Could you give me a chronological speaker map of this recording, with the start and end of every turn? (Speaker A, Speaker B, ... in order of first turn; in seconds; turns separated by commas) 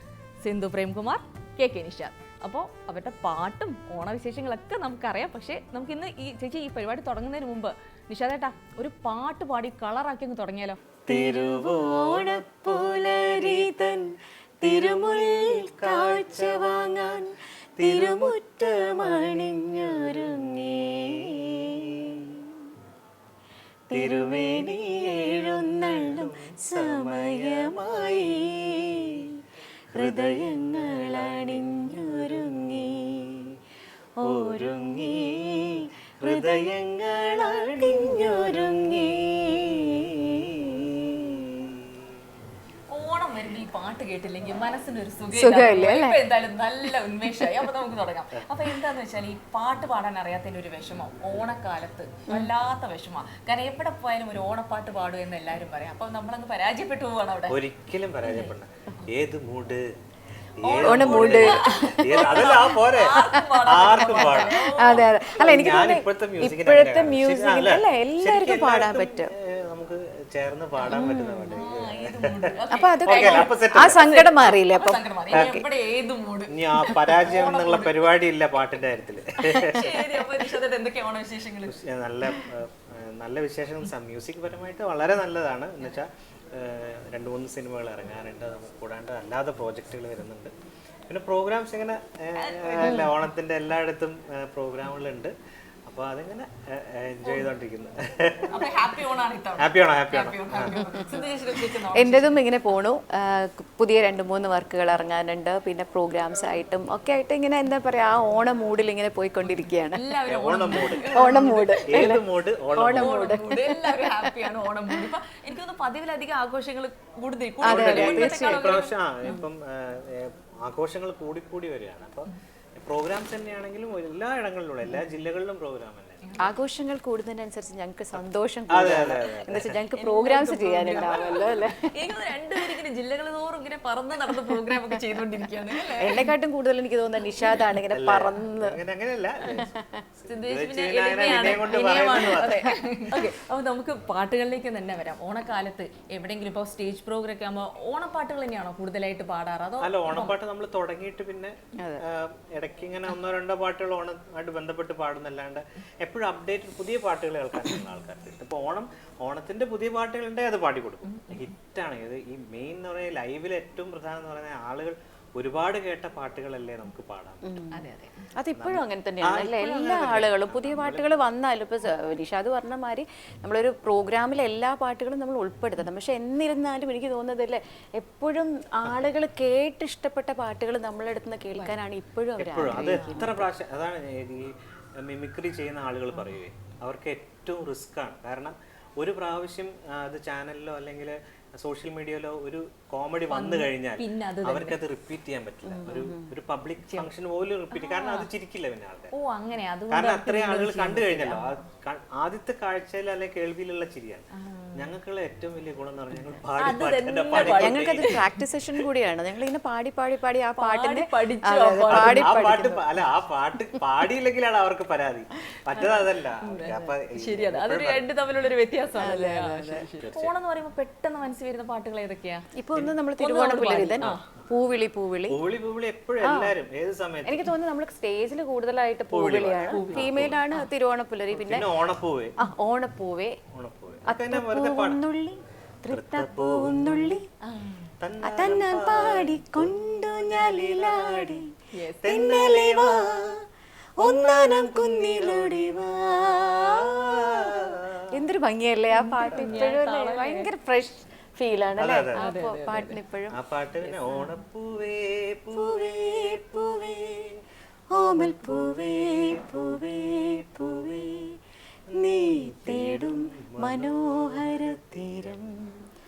Speaker A: 0.4-10.8, Speaker B: 11.1-14.0, Speaker C: 11.1-14.0, Speaker C: 14.6-17.2, Speaker B: 14.6-17.2, Speaker C: 17.8-21.6, Speaker B: 17.8-22.4, Speaker C: 23.9-29.2, Speaker B: 23.9-29.1, Speaker C: 29.9-33.1, Speaker B: 29.9-33.4, Speaker C: 34.2-36.8, Speaker B: 34.2-42.0, Speaker C: 37.5-41.2, Speaker A: 42.9-57.6, Speaker C: 45.3-46.2, Speaker B: 57.5-59.9, Speaker A: 58.2-58.5, Speaker A: 60.6-65.1, Speaker B: 60.6-72.5, Speaker C: 60.8-62.6, Speaker C: 63.1-69.3, Speaker C: 70.9-71.6, Speaker A: 71.5-78.1, Speaker C: 72.7-75.7, Speaker B: 73.0-74.5, Speaker B: 76.5-80.3, Speaker C: 79.4-79.8, Speaker A: 79.6-81.8, Speaker B: 81.7-90.5, Speaker B: 91.1-95.3, Speaker A: 92.4-93.1, Speaker C: 92.8-93.1, Speaker B: 95.9-98.7, Speaker A: 98.5-102.4, Speaker B: 99.6-100.8, Speaker C: 100.8-101.3, Speaker C: 101.9-110.0, Speaker A: 109.9-112.1, Speaker B: 110.3-113.4, Speaker C: 111.1-115.1, Speaker A: 112.9-119.4, Speaker C: 117.6-118.9, Speaker B: 117.6-126.3, Speaker A: 126.2-126.5, Speaker C: 126.4-132.0, Speaker B: 128.7-129.8, Speaker A: 129.9-136.3, Speaker C: 134.3-135.0, Speaker C: 136.0-138.8, Speaker A: 137.4-137.6, Speaker B: 137.9-142.7, Speaker C: 139.5-140.0, Speaker A: 140.3-150.4, Speaker B: 149.8-167.5, Speaker A: 161.0-161.5, Speaker C: 167.4-167.8, Speaker A: 167.7-168.3, Speaker C: 168.3-183.5, Speaker B: 168.5-171.2, Speaker B: 182.4-199.1, Speaker A: 182.7-183.3, Speaker A: 193.3-194.8, Speaker C: 195.7-196.3, Speaker A: 197.7-198.3, Speaker A: 199.1-201.6, Speaker B: 199.9-208.2, Speaker A: 206.6-208.2, Speaker C: 207.3-212.8, Speaker A: 210.6-212.5, Speaker B: 211.9-218.1, Speaker C: 215.8-216.0, Speaker A: 216.4-222.4, Speaker C: 218.9-219.9, Speaker B: 220.0-220.3, Speaker C: 222.6-225.4, Speaker A: 223.2-224.2, Speaker B: 224.0-224.4, Speaker B: 225.3-227.5, Speaker C: 226.2-226.6, Speaker C: 227.2-231.7, Speaker B: 229.1-230.4, Speaker A: 229.7-230.7, Speaker B: 231.3-232.3, Speaker C: 232.4-233.4, Speaker B: 233.5-235.0, Speaker C: 234.1-237.2, Speaker B: 235.9-237.2, Speaker A: 237.4-237.9, Speaker B: 238.0-241.4, Speaker C: 238.2-241.4, Speaker A: 241.7-242.1, Speaker B: 242.0-243.0, Speaker C: 242.0-243.3, Speaker C: 244.0-253.4, Speaker B: 244.0-247.9, Speaker A: 248.9-250.5, Speaker B: 249.3-249.7, Speaker B: 251.8-252.2, Speaker A: 252.2-253.0, Speaker B: 253.3-256.4, Speaker A: 253.8-254.3, Speaker C: 255.6-257.3, Speaker C: 257.9-261.4, Speaker B: 258.0-259.8, Speaker C: 262.0-265.6, Speaker B: 262.0-265.5